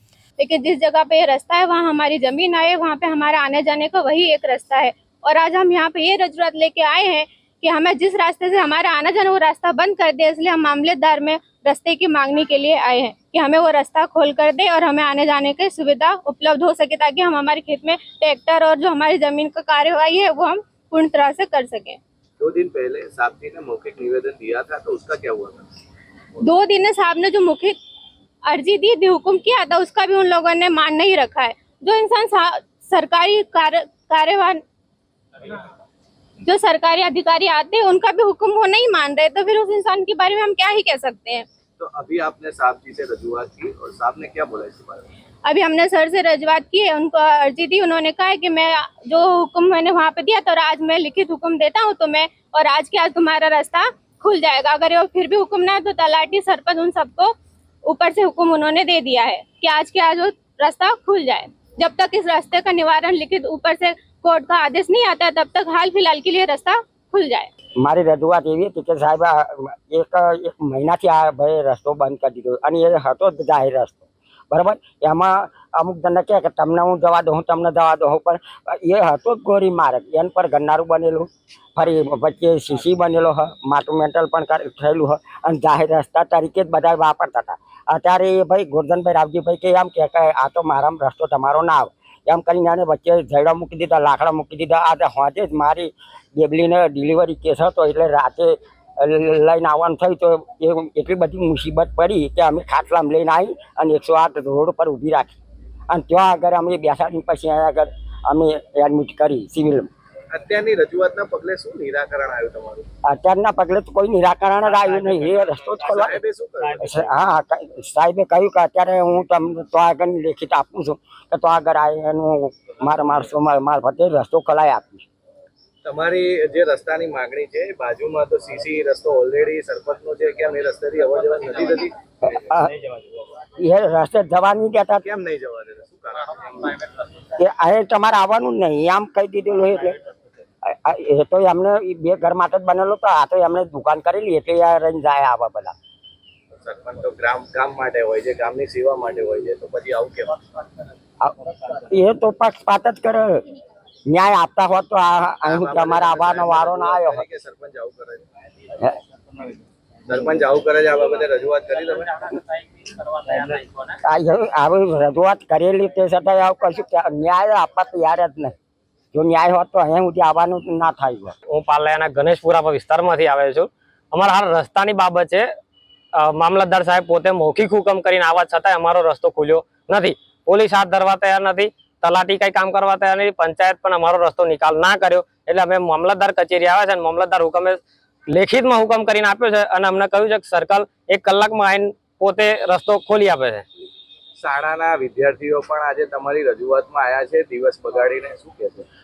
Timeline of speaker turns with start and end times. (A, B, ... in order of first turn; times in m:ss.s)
0:00.4-0:22.0 A
0:22.4-0:25.7 B
0:26.4-0:27.8 A
0:28.5-0:34.6 A
0:36.4-0:41.4 A
0:41.8-0:45.1 B
0:45.4-0:57.3 A
0:57.8-1:07.5 A
1:07.8-1:45.4 C
1:45.9-1:49.9 C
1:50.3-1:52.8 B
1:53.0-1:56.2 C
1:54.9-1:55.8 D
1:55.8-1:56.8 B
1:56.6-1:57.1 D
1:56.8-2:05.0 C
2:05.8-2:13.0 B
2:12.3-2:12.7 C
2:13.6-2:15.0 C
2:15.0-2:16.8 B
2:17.4-2:20.0 C
2:20.7-2:25.7 C
2:26.5-2:30.4 B
2:31.2-2:33.4 C
2:34.1-2:37.2 C
2:35.4-2:38.3 B
2:40.1-2:42.4 B
2:42.4-2:43.9 D
2:44.0-2:48.5 C
2:49.1-2:51.4 C
2:51.5-2:55.5 D
2:56.2-3:13.6 D
3:14.4-3:18.9 B